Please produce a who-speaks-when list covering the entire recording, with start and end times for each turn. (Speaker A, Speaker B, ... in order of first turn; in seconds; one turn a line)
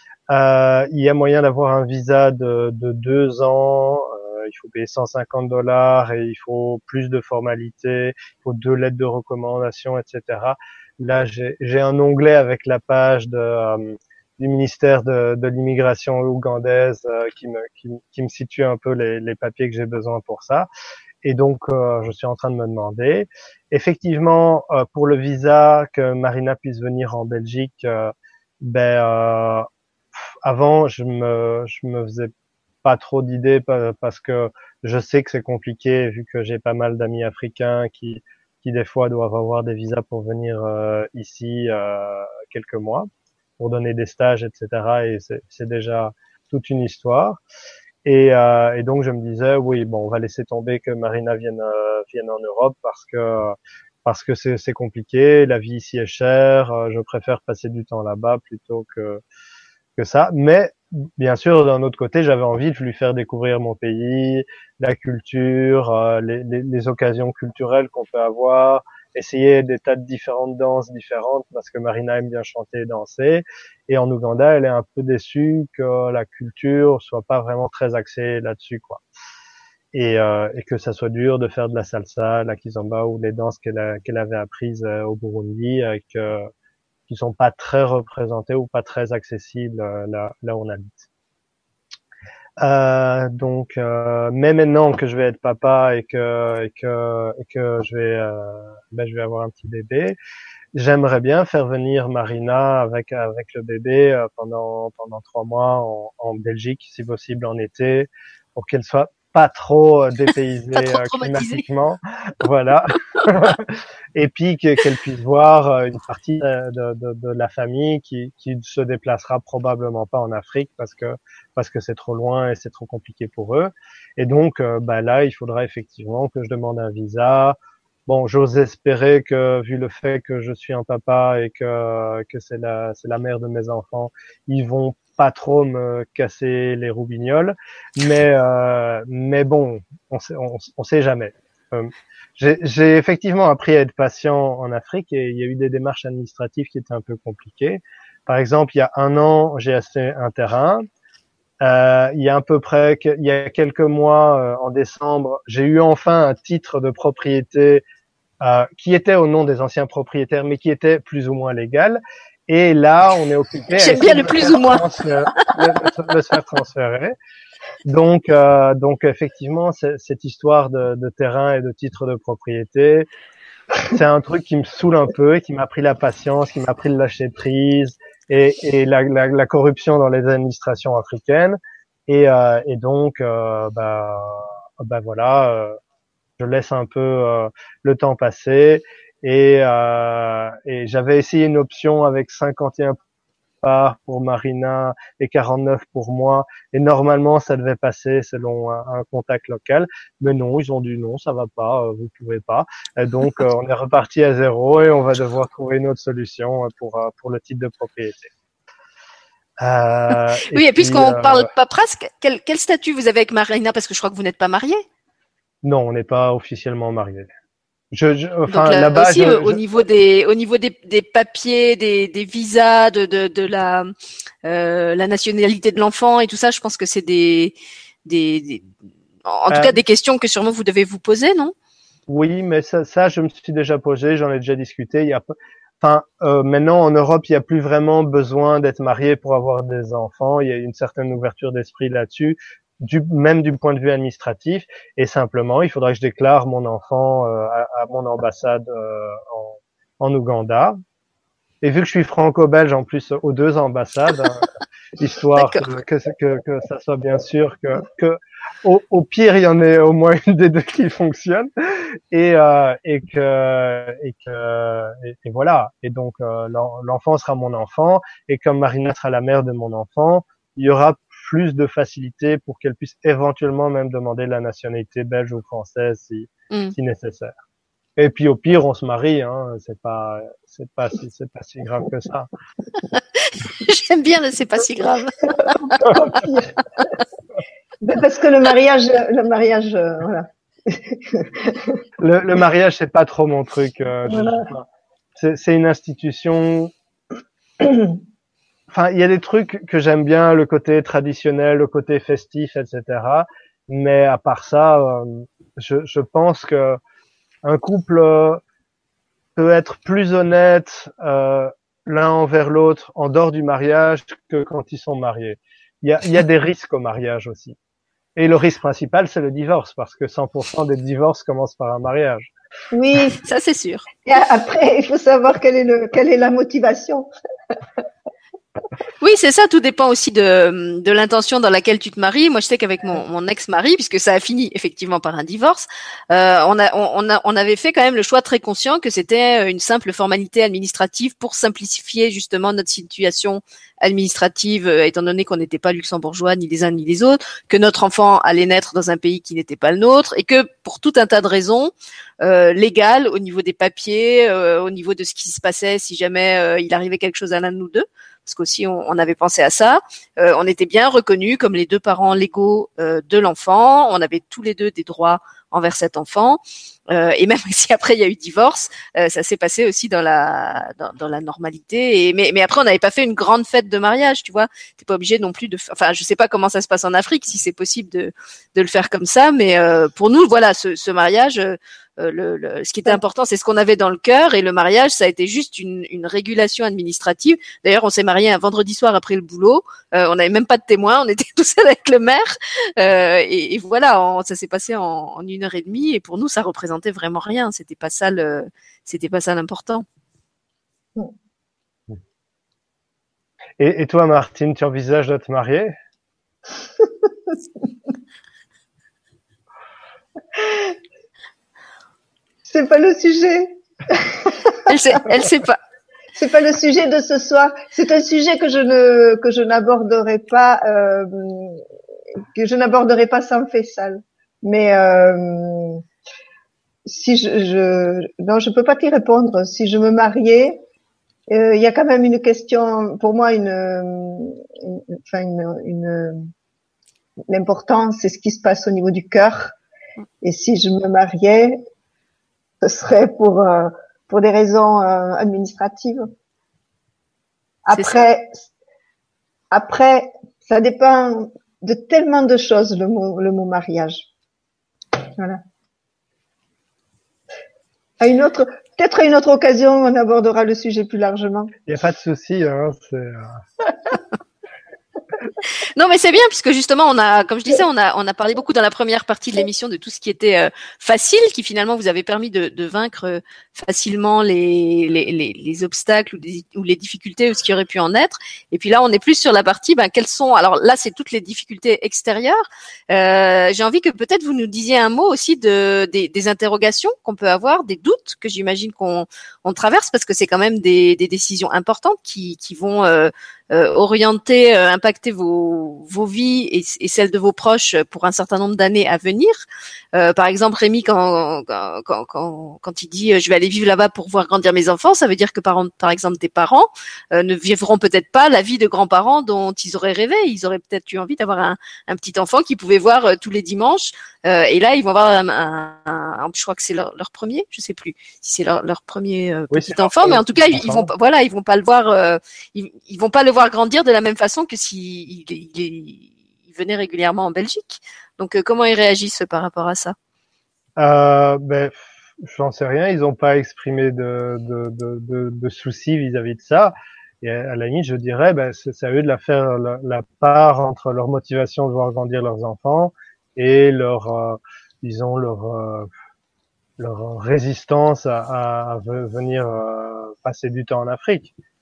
Speaker A: 0.3-20.7
Speaker A: 21.2-29.7
Speaker A: 30.4-32.3
Speaker A: 32.8-43.1
Speaker A: 43.6-47.4
Speaker A: 48.0-59.2
Speaker A: 60.0-79.0
Speaker A: 79.9-86.5
Speaker A: 87.1-91.0
Speaker A: 92.6-100.2
Speaker A: 100.7-150.8
Speaker B: 110.7-111.6
Speaker A: 151.6-157.8
Speaker A: 158.4-167.1
Speaker B: 163.8-164.8
Speaker A: 167.8-173.1
Speaker A: 173.8-185.8
Speaker A: 186.4-193.0
Speaker A: 193.6-208.3
Speaker A: 209.6-211.5
Speaker B: 210.5-214.8
Speaker A: 215.6-217.3
Speaker A: 217.9-219.6
Speaker B: 218.5-223.9
Speaker B: 224.4-227.5
Speaker B: 228.1-228.7
Speaker B: 229.2-231.5
Speaker A: 229.5-229.8
Speaker A: 232.1-250.8
Speaker A: 251.6-254.4
Speaker A: 255.0-261.5
Speaker B: 255.3-255.6
Speaker A: 262.1-277.3
Speaker A: 278.0-282.3
Speaker B: 282.9-285.5
Speaker C: 285.4-286.5
Speaker C: 287.8-291.8
Speaker A: 292.0-296.7
Speaker C: 294.1-294.5
Speaker A: 298.7-306.8
Speaker A: 307.4-308.4
Speaker A: 309.4-317.6
Speaker A: 318.1-322.3
Speaker C: 322.7-323.2
Speaker B: 323.2-323.9
Speaker C: 324.0-327.1
Speaker B: 329.0-399.8
Speaker A: 403.6-405.7
Speaker C: 410.3-410.7
Speaker C: 412.4-414.6
Speaker B: 414.6-415.6
Speaker C: 416.1-421.6
Speaker C: 422.3-425.8
Speaker C: 426.8-430.6
Speaker C: 431.3-436.2
Speaker C: 437.3-439.6
Speaker C: 440.2-441.6
Speaker C: 442.6-446.1
Speaker C: 447.6-448.4
Speaker B: 447.7-448.0
Speaker C: 449.5-454.1
Speaker C: 458.0-461.6
Speaker A: 461.7-463.4
Speaker B: 465.7-499.4
Speaker B: 499.9-529.9
Speaker A: 519.5-520.9
Speaker A: 530.8-545.9
Speaker A: 546.8-551.3